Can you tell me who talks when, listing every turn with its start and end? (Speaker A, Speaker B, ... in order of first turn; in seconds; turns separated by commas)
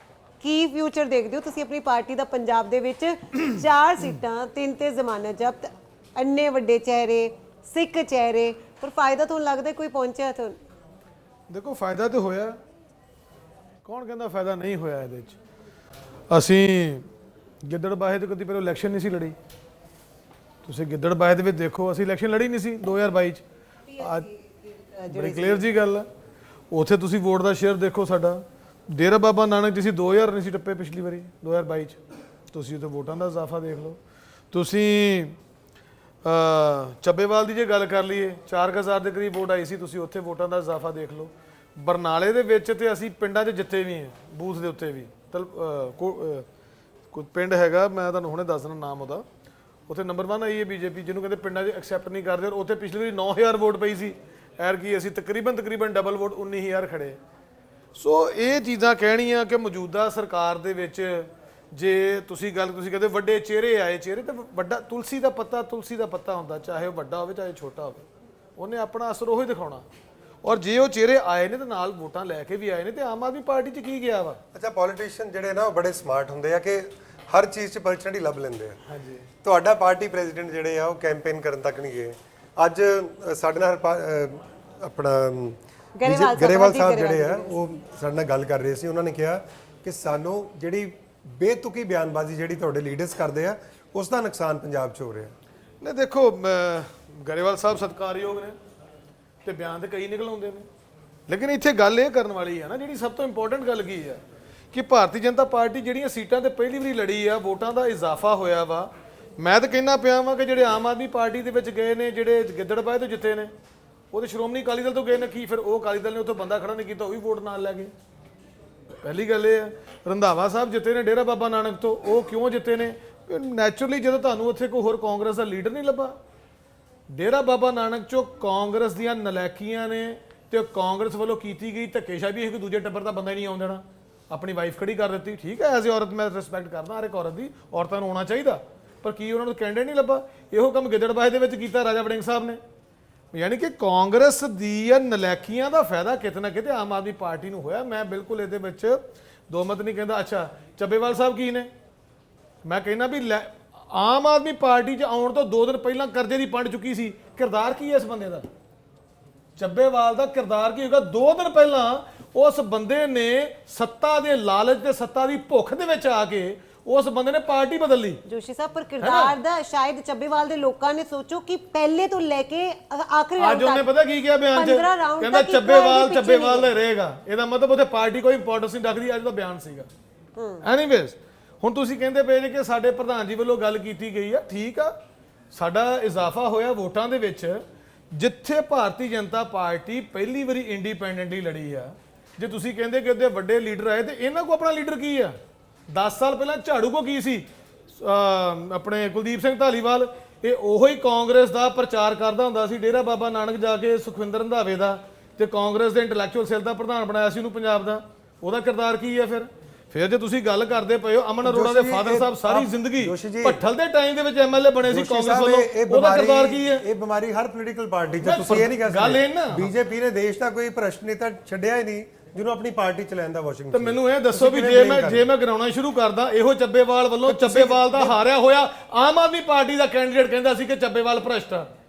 Speaker A: 0.4-10.6, Speaker B: 11.5-12.6, Speaker B: 13.8-15.4, Speaker B: 16.3-17.1, Speaker B: 17.6-19.4, Speaker B: 20.6-23.4, Speaker A: 23.9-25.6, Speaker B: 24.0-24.3, Speaker B: 25.1-26.1, Speaker B: 26.7-32.0, Speaker B: 32.5-34.0, Speaker B: 34.5-35.4, Speaker B: 36.2-46.5, Speaker B: 47.1-49.2, Speaker B: 49.9-57.2, Speaker B: 58.0-68.0, Speaker B: 68.6-69.8, Speaker B: 70.4-74.4, Speaker C: 74.5-78.8, Speaker B: 78.9-79.3, Speaker C: 79.4-95.3, Speaker A: 86.0-87.5, Speaker B: 95.8-98.6, Speaker B: 99.4-100.7, Speaker B: 101.3-104.2, Speaker B: 104.7-113.5, Speaker B: 114.1-117.9, Speaker B: 119.0-126.2, Speaker B: 127.1-142.6, Speaker B: 143.3-151.7, Speaker B: 152.7-158.5, Speaker B: 159.6-168.2, Speaker A: 168.3-173.9, Speaker B: 169.0-169.4, Speaker B: 173.4-179.9, Speaker A: 174.5-176.7, Speaker A: 180.4-180.7, Speaker B: 180.6-184.9, Speaker B: 185.5-187.6, Speaker B: 188.1-195.3, Speaker B: 195.9-216.8, Speaker C: 211.4-213.6, Speaker C: 214.8-225.3, Speaker B: 218.2-219.7, Speaker B: 223.7-231.7, Speaker C: 227.2-228.2